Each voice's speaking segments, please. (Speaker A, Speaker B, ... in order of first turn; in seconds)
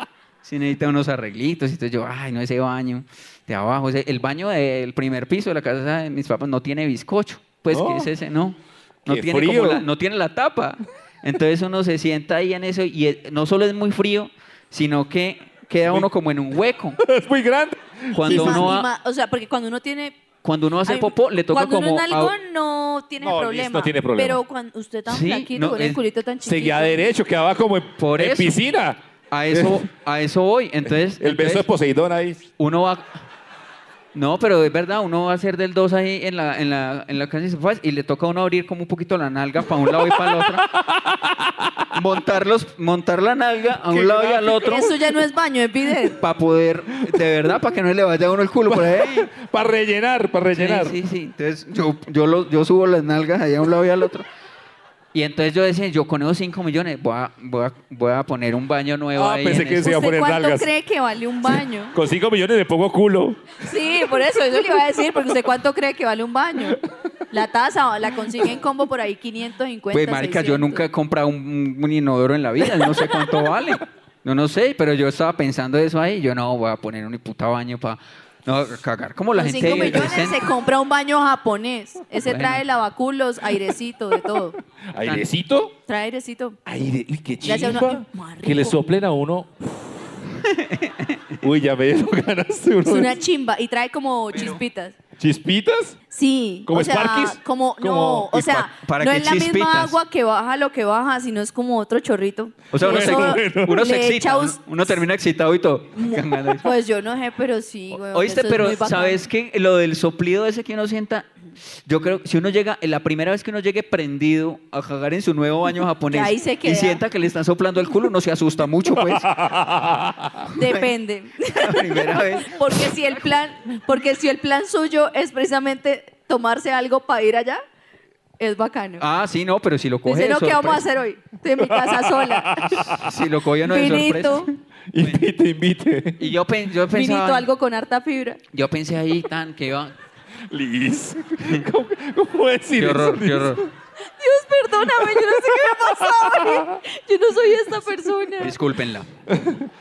Speaker A: 0.4-17.0, 18.1-18.9, 20.4-22.3, 25.1-26.0, 28.0-28.5, 29.3-31.6, 32.6-33.2, 34.1-40.7, 41.9-45.0, 46.0-49.3, 50.5-54.2, 55.1-59.9, 69.9-80.5, 82.2-82.6, 90.4-91.2, 94.3-94.6, 98.3-100.0, 102.7-106.7, 107.9-111.3, 111.8-119.4, 120.5-120.9, 121.5-123.3, 129.0-130.8, 132.9-135.2, 136.2-137.5, 138.5-139.9, 142.8-143.6, 148.4-149.1
Speaker B: 7.7-8.1, 9.1-9.8, 17.0-18.7, 23.2-24.4, 26.4-29.8, 31.2-32.4, 40.1-41.9, 43.9-44.7, 48.7-51.0, 59.1-60.7, 61.9-63.7, 79.6-80.2, 84.9-85.8, 86.7-89.5, 91.4-93.2, 95.2-96.0, 96.7-98.5, 102.7-103.8, 119.0-120.5, 131.6-133.1, 134.9-136.3, 140.5-143.7, 144.9-146.8, 149.3-149.7
Speaker C: 18.2-20.2, 20.9-27.0, 44.6-46.2, 59.8-61.9, 63.6-66.8, 67.3-70.8, 79.3-84.6, 85.9-86.6, 87.4-88.8, 92.8-94.9, 96.1-105.0, 106.0-109.2, 116.1-117.0, 120.5-127.6, 128.4-129.0, 130.1-132.9, 133.6-134.5, 136.9-138.4, 144.0-148.5